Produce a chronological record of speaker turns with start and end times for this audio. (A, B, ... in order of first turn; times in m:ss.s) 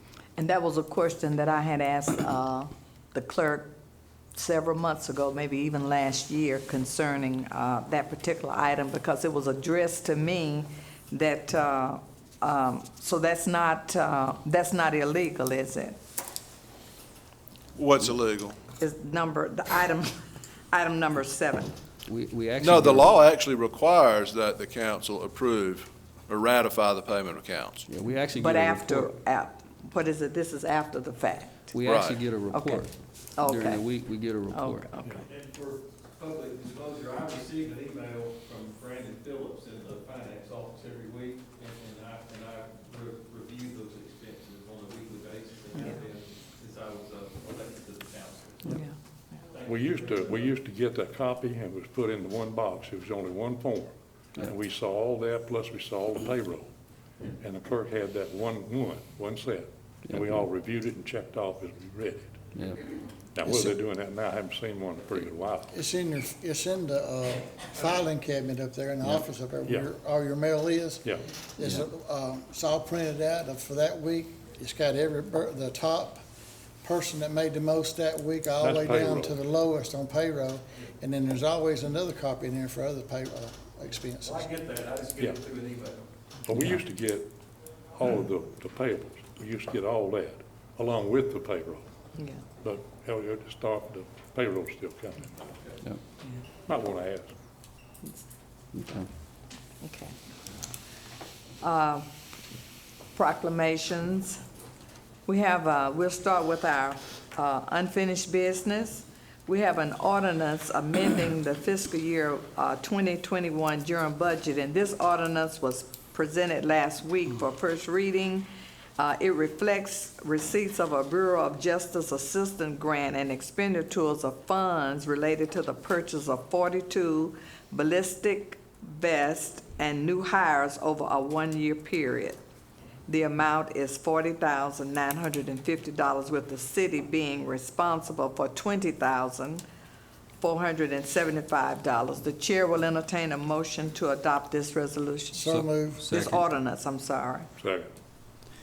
0:00.4-0:03.7 A
0:04.3-0:16.0 A
0:17.8-0:18.6 B
0:18.8-0:20.1 A
0:20.7-0:21.7 A
0:22.0-0:23.2 C
0:22.6-0:27.8 B
0:27.9-0:29.1 C
0:28.4-0:31.8 A
0:31.7-0:34.9 C
0:31.8-0:32.4 B
0:32.5-0:33.8 A
0:34.5-0:35.2 A
0:35.0-0:48.8 D
0:49.5-0:50.5 D
0:49.6-0:56.7 E
0:57.4-1:02.4 E
1:02.5-1:02.8 C
1:03.3-1:05.7 E
1:03.4-1:03.7 F
1:05.7-1:11.0 F
1:11.6-1:16.2 F
1:16.8-1:24.4 F
1:18.6-1:19.4 E
1:24.2-1:26.0 D
1:25.2-1:25.4 E
1:26.4-1:27.3 E
1:26.5-1:26.8 C
1:27.9-1:31.9 E
1:32.6-1:35.3 E
1:36.7-1:37.3 E
1:38.7-1:39.1 C
1:39.8-1:40.1 A
1:41.6-1:42.1 A
1:43.1-1:44.4 A
1:45.2-2:12.4 A
2:13.1-2:19.6 A
2:20.4-2:25.5 A
2:25.3-2:26.1 F
2:25.4-2:26.4 C
2:26.0-2:27.5 A
2:27.6-2:27.9 E